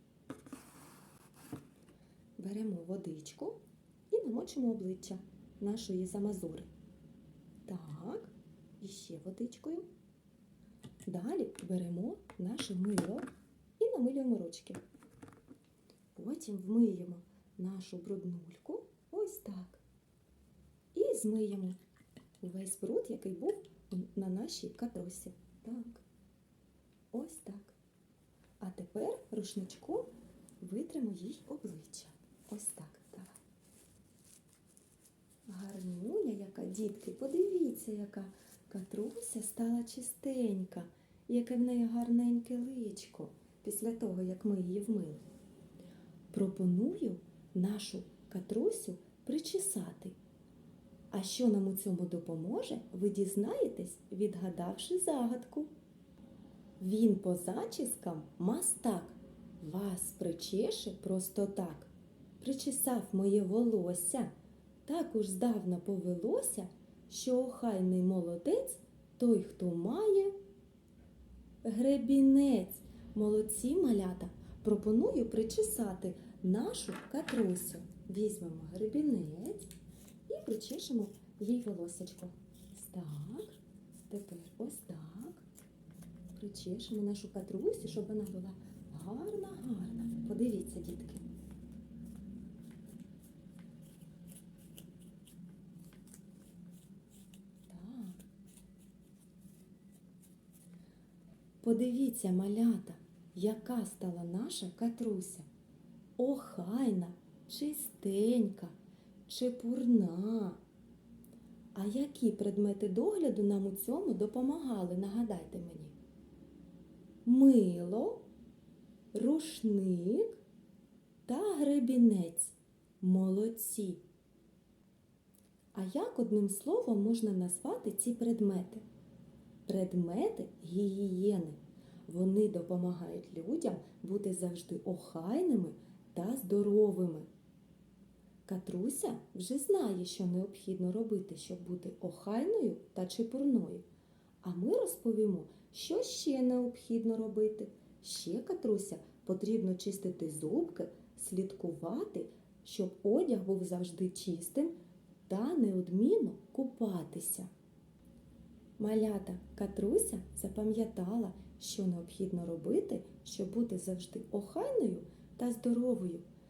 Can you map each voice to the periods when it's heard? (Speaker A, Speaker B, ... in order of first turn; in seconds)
Speaker A: 2.4-6.7, 7.7-9.8, 11.1-14.8, 16.1-19.8, 20.9-21.8, 22.4-26.0, 27.1-27.8, 28.6-33.4, 35.5-45.2, 46.3-50.2, 51.1-55.7, 56.8-64.3, 64.8-70.3, 71.6-79.7, 80.3-85.4, 86.3-91.2, 97.7-98.2, 101.6-105.5, 106.2-108.8, 109.3-110.6, 111.7-115.9, 117.2-118.2, 119.1-120.4, 121.2-124.0, 125.7-128.8, 129.7-137.3, 138.5-143.8, 144.4-154.7, 155.3-157.5, 158.8-166.2